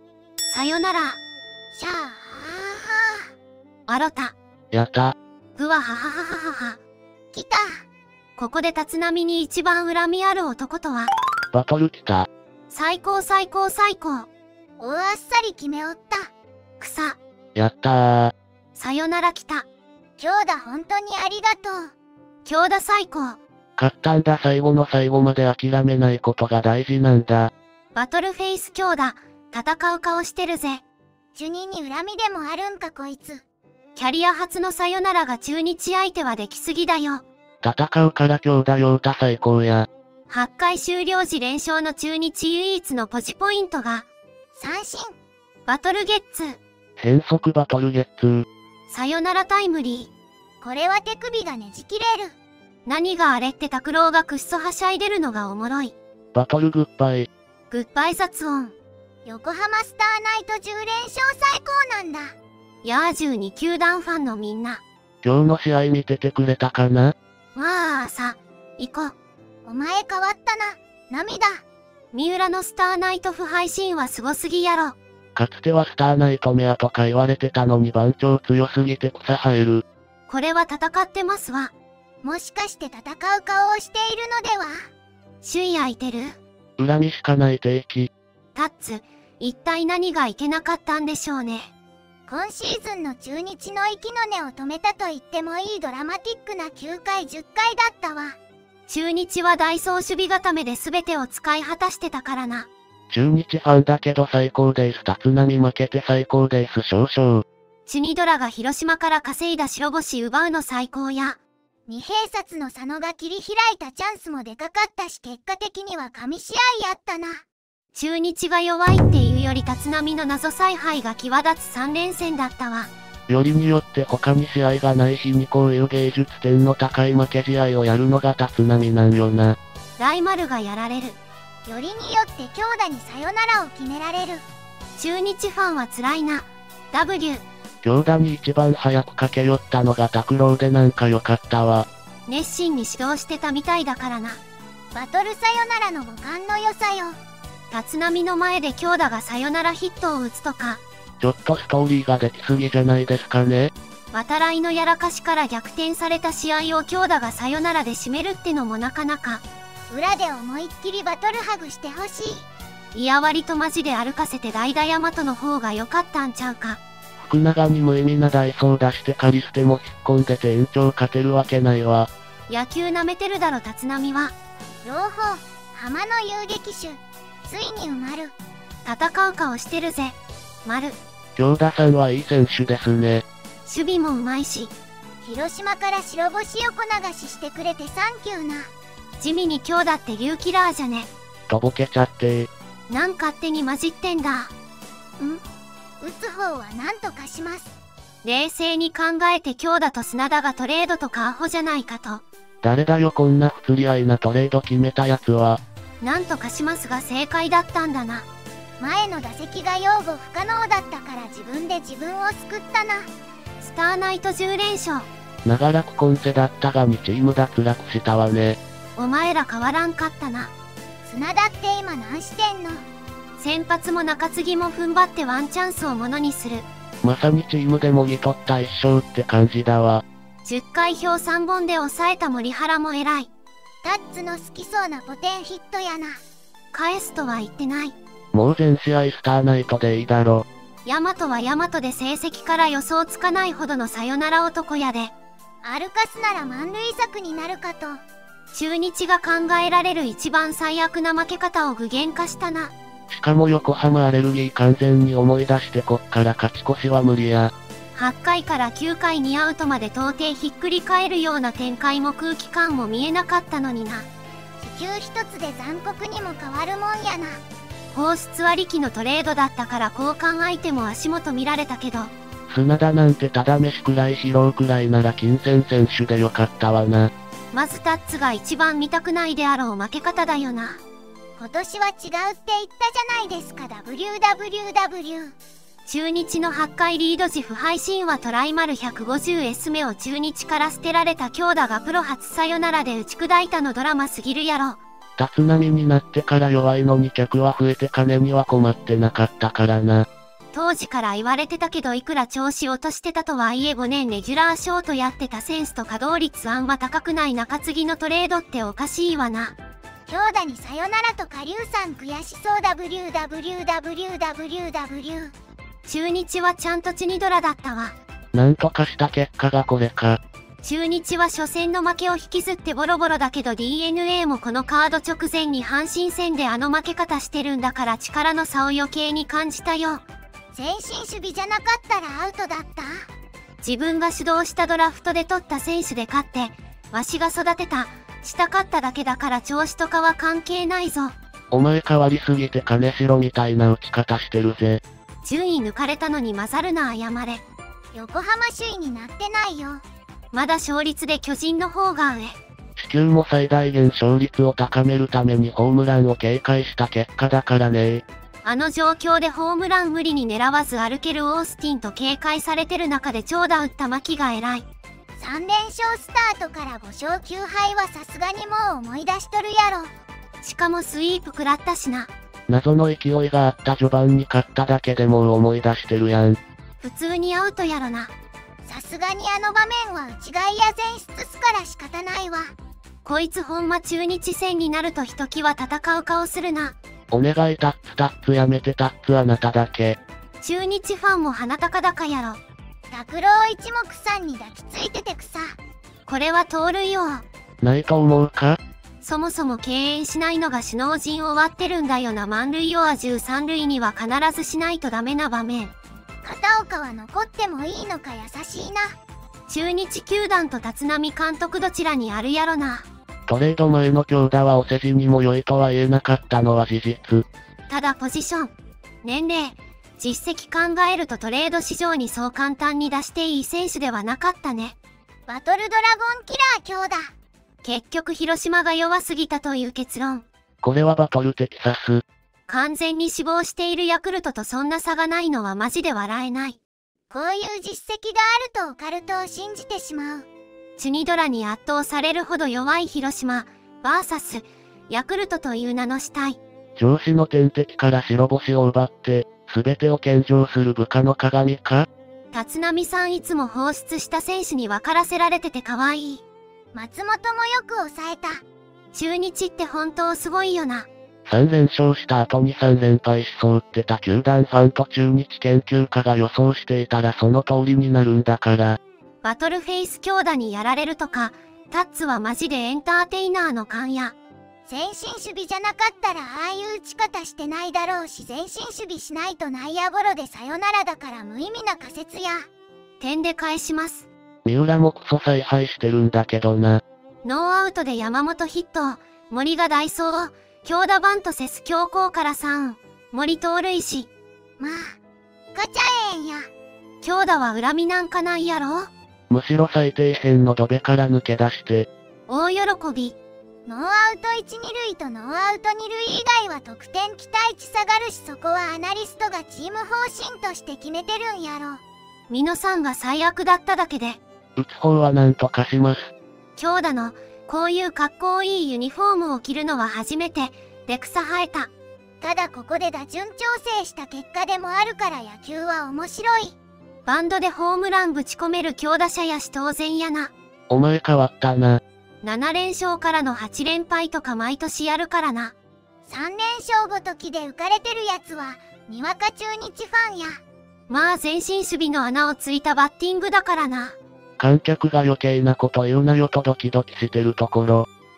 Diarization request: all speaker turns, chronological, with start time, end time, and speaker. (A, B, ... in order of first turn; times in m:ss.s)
0:00.5-0:01.2 A
0:01.7-0:03.3 B
0:03.9-0:04.3 A
0:04.7-0:05.2 C
0:05.6-0:06.8 A
0:07.3-0:07.8 B
0:08.4-0:11.1 A
0:11.5-0:12.3 C
0:12.7-0:14.3 A
0:14.8-0:16.3 B
0:16.8-0:17.2 A
0:17.5-0:18.4 C
0:18.8-0:19.7 A
0:20.2-0:21.9 B
0:22.4-0:23.4 A
0:23.8-0:27.5 C
0:27.9-0:30.8 A
0:31.3-0:33.4 B
0:33.9-0:37.2 A
0:37.6-0:39.9 C
0:40.3-0:44.1 A
0:44.6-0:45.1 B
0:45.6-0:46.6 A
0:47.0-0:48.5 C
0:48.9-0:50.1 A
0:50.6-0:52.4 B
0:52.8-0:55.9 A
0:56.3-0:57.3 C
0:57.7-0:58.7 A
0:59.2-1:02.3 B
1:02.8-1:04.8 A
1:05.2-1:07.2 C
1:07.5-1:09.1 A
1:09.6-1:11.6 B
1:12.1-1:15.0 A
1:15.3-1:19.8 C
1:20.3-1:21.7 A
1:22.2-1:24.7 B
1:25.4-1:26.4 A
1:26.8-1:28.1 C
1:28.5-1:31.7 A
1:32.3-1:38.4 B
1:38.9-1:42.7 A
1:43.1-1:47.5 C
1:47.9-1:51.4 A
1:51.9-1:57.4 B
1:57.9-2:02.9 A
2:03.3-2:09.6 C
2:10.0-2:11.2 A
2:11.7-2:14.4 B
2:15.0-2:17.4 A
2:17.8-2:21.9 C
2:22.3-2:24.4 A
2:24.9-2:27.2 B
2:27.7-2:30.8 A
2:31.2-2:33.7 C
2:34.1-2:39.4 A
2:39.9-2:42.5 B
2:42.9-2:46.8 A
2:47.2-2:52.1 C
2:52.5-2:54.3 A
2:54.8-2:58.4 B
2:58.8-3:01.0 A
3:01.4-3:03.2 C
3:03.6-3:04.7 A
3:05.2-3:08.7 B
3:09.2-3:11.1 A
3:11.5-3:12.5 C
3:12.9-3:14.5 A
3:16.0-3:17.7 B
3:18.2-3:22.2 A
3:22.6-3:25.6 C
3:26.0-3:28.3 A
3:28.8-3:33.1 B
3:33.6-3:35.1 A
3:35.4-3:38.6 C
3:39.0-3:40.5 A
3:41.0-3:42.8 B
3:43.4-3:46.6 A
3:47.0-3:50.0 C
3:50.4-3:53.3 A
3:53.8-3:56.2 B
3:56.7-3:58.0 A
3:58.3-4:00.5 C
4:00.8-4:05.1 A
4:05.6-4:08.0 B
4:08.5-4:12.7 A
4:13.1-4:17.5 C
4:17.9-4:24.1 A
4:24.6-4:27.4 B
4:27.9-4:32.1 A
4:32.5-4:37.1 C
4:37.5-4:40.8 A
4:41.4-4:45.4 B
4:45.8-4:54.8 A
4:55.2-5:00.1 C
5:00.5-5:09.5 A
5:10.1-5:15.3 B
5:15.8-5:17.9 A
5:18.3-5:20.2 C
5:20.6-5:30.0 A
5:30.5-5:32.9 B
5:33.6-5:41.1 A
5:41.5-5:44.8 C
5:45.2-5:47.4 A
5:47.9-5:49.8 B
5:50.3-5:52.4 A
5:52.8-5:58.0 C
5:58.4-6:04.6 A
6:05.2-6:09.9 B
6:10.4-6:12.1 A
6:12.5-6:16.4 C
6:16.8-6:18.1 A
6:18.6-6:22.5 B
6:23.0-6:26.8 A
6:27.1-6:30.0 C
6:30.4-6:32.4 A
6:32.9-6:35.5 B
6:36.1-6:37.2 A
6:37.6-6:38.6 C
6:39.0-6:45.7 A
6:46.2-6:48.9 B
6:49.5-6:52.8 A
6:53.3-6:57.3 C
6:57.7-6:58.5 A
6:59.0-7:04.8 A
7:05.3-7:07.0 B
7:07.6-7:10.2 A
7:10.6-7:12.0 C
7:12.5-7:16.6 A
7:17.1-7:20.2 B
7:20.8-7:26.4 A
7:26.8-7:31.9 C
7:32.3-7:36.2 A
7:36.7-7:38.4 B
7:38.9-7:40.9 A
7:41.2-7:48.8 C
7:49.2-7:54.1 A
7:54.6-8:02.5 B
8:03.0-8:04.1 A
8:04.4-8:06.8 C
8:07.2-8:14.1 A
8:14.6-8:15.0 B
8:15.5-8:16.5 B
8:17.0-8:18.9 A
8:19.3-8:21.9 C
8:22.3-8:23.2 A
8:23.6-8:31.8 B
8:32.3-8:34.2 A
8:34.6-8:36.1 C
8:36.6-8:41.7 A
8:42.2-8:46.6 B
8:47.0-8:50.3 A
8:50.7-8:51.8 C
8:52.2-8:55.5 A
8:56.0-9:00.4 B
9:00.9-9:04.0 A
9:04.4-9:07.9 C